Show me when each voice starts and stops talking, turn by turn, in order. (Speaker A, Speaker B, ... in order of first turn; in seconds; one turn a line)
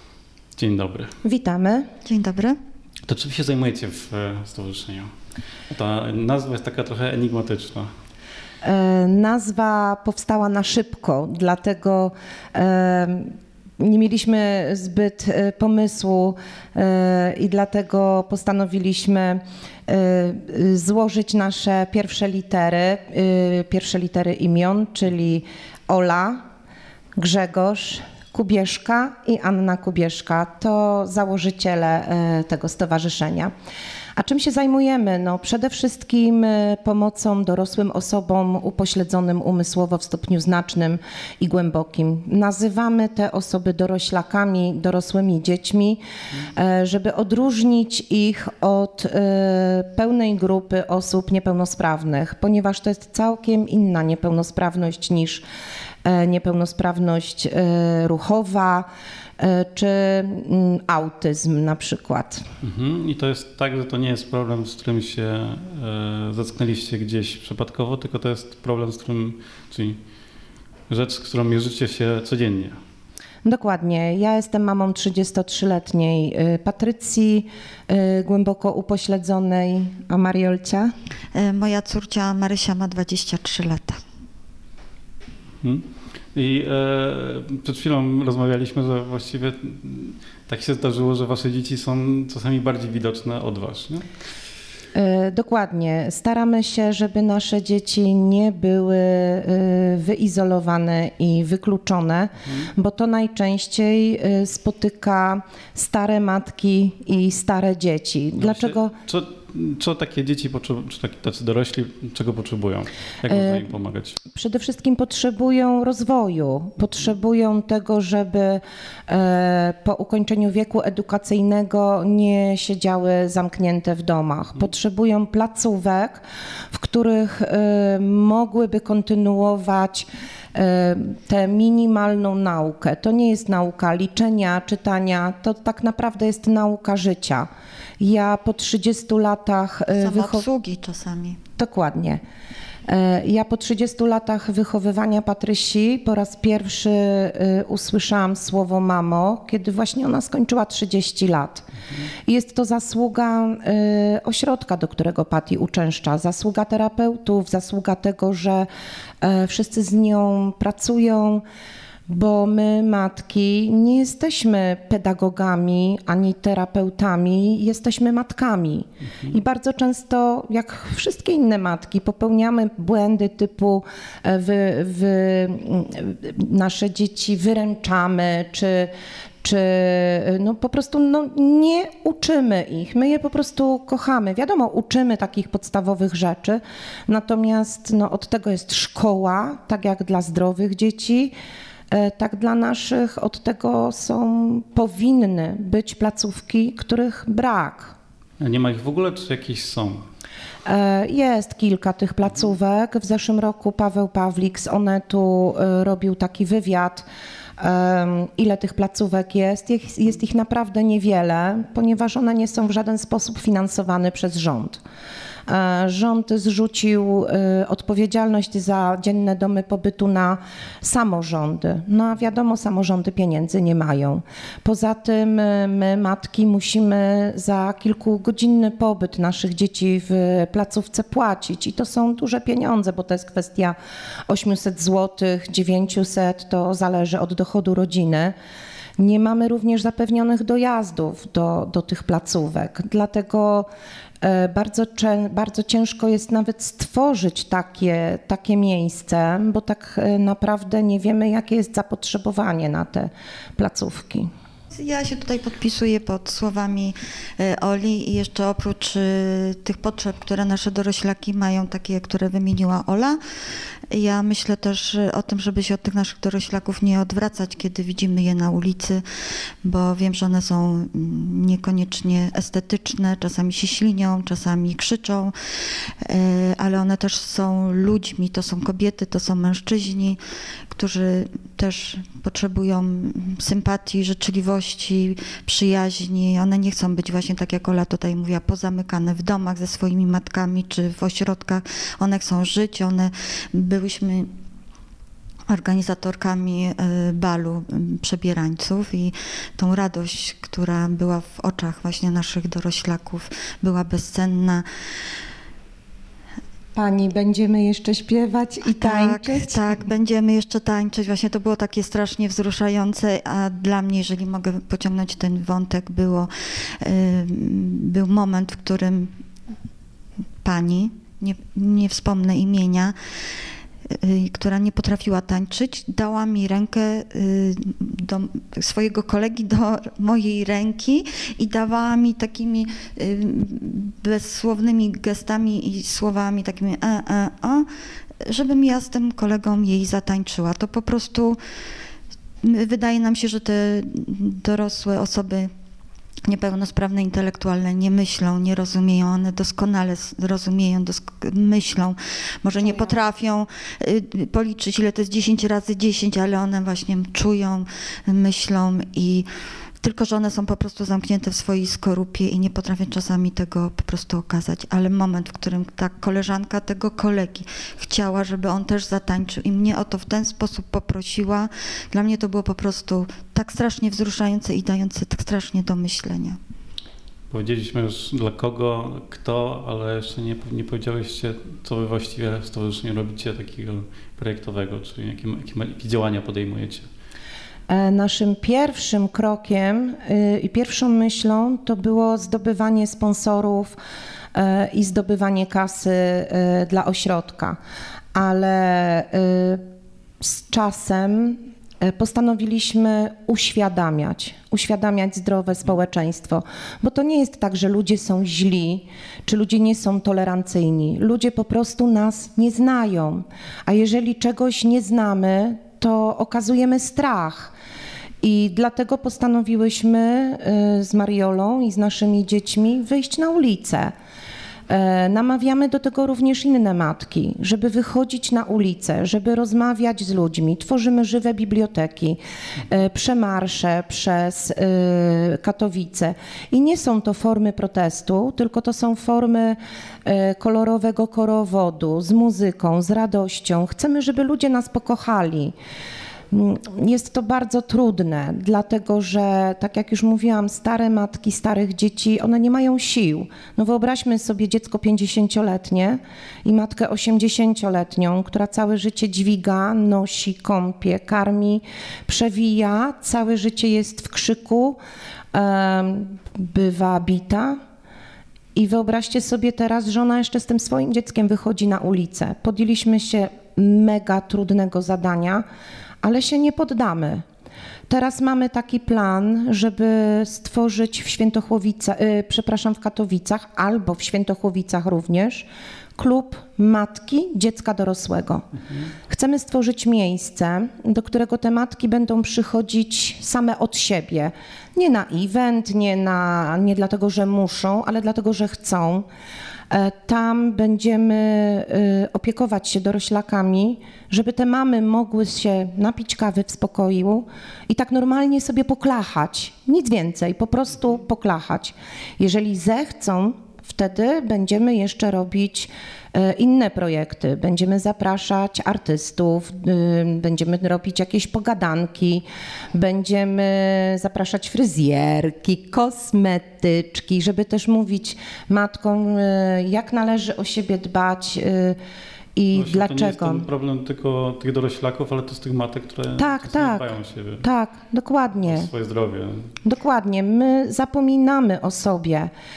Speaker A: 0.6-1.1
Speaker B: 1.2-1.9
Speaker C: 2.0-2.6
Speaker A: 3.1-5.1
Speaker A: 5.7-7.9
Speaker B: 8.6-26.4
Speaker B: 27.2-33.5
Speaker B: 34.2-55.4
Speaker B: 56.0-58.9
Speaker B: 59.4-62.5
Speaker A: 62.6-70.0
Speaker A: 70.9-72.8
Speaker B: 73.4-80.9
Speaker C: 81.3-84.0
Speaker A: 85.6-94.0
Speaker B: 94.9-108.9
Speaker A: 108.4-114.2
Speaker B: 113.3-113.7
Speaker B: 114.3-137.5
Speaker B: 138.0-140.5
Speaker C: 139.9-141.4
Speaker B: 141.6-142.2
Speaker B: 142.9-151.7
Speaker B: 152.2-158.7
Speaker B: 159.2-161.4
Speaker B: 162.1-191.3
Speaker B: 191.9-198.0
Speaker A: 198.4-200.0
Speaker B: 200.7-207.1
Speaker B: 207.6-214.8
Speaker B: 215.5-233.8
Speaker B: 234.3-238.3
Speaker B: 239.0-243.7
Speaker B: 244.2-254.3
Speaker C: 254.7-263.2
Speaker C: 263.9-269.0
Speaker C: 269.6-275.3
Speaker C: 276.0-280.2
Speaker C: 280.7-294.3
Speaker C: 295.5-304.6
Speaker B: 306.8-309.8
Speaker C: 308.7-316.3
Speaker C: 316.8-319.1
Speaker C: 320.4-323.0
Speaker C: 323.9-337.7
Speaker C: 338.2-341.4
Speaker C: 342.4-345.5
Speaker C: 346.3-359.3
Speaker C: 359.8-376.4
Speaker A: 377.3-386.9
Speaker B: 387.7-393.8
Speaker B: 394.3-397.6
Speaker B: 398.1-399.6
Speaker B: 400.2-417.5
Speaker B: 418.2-423.9
Speaker B: 424.7-445.5
Speaker B: 446.3-464.8
Speaker B: 465.3-467.6
Speaker B: 468.6-475.4
Speaker B: 476.0-477.2
Speaker B: 477.9-488.4
Speaker B: 489.1-499.1
Speaker B: 499.7-531.8
Speaker B: 532.4-533.5
Speaker A: 532.5-537.4
Speaker B: 536.2-538.7
Speaker A: 538.5-539.5
Speaker B: 539.6-542.3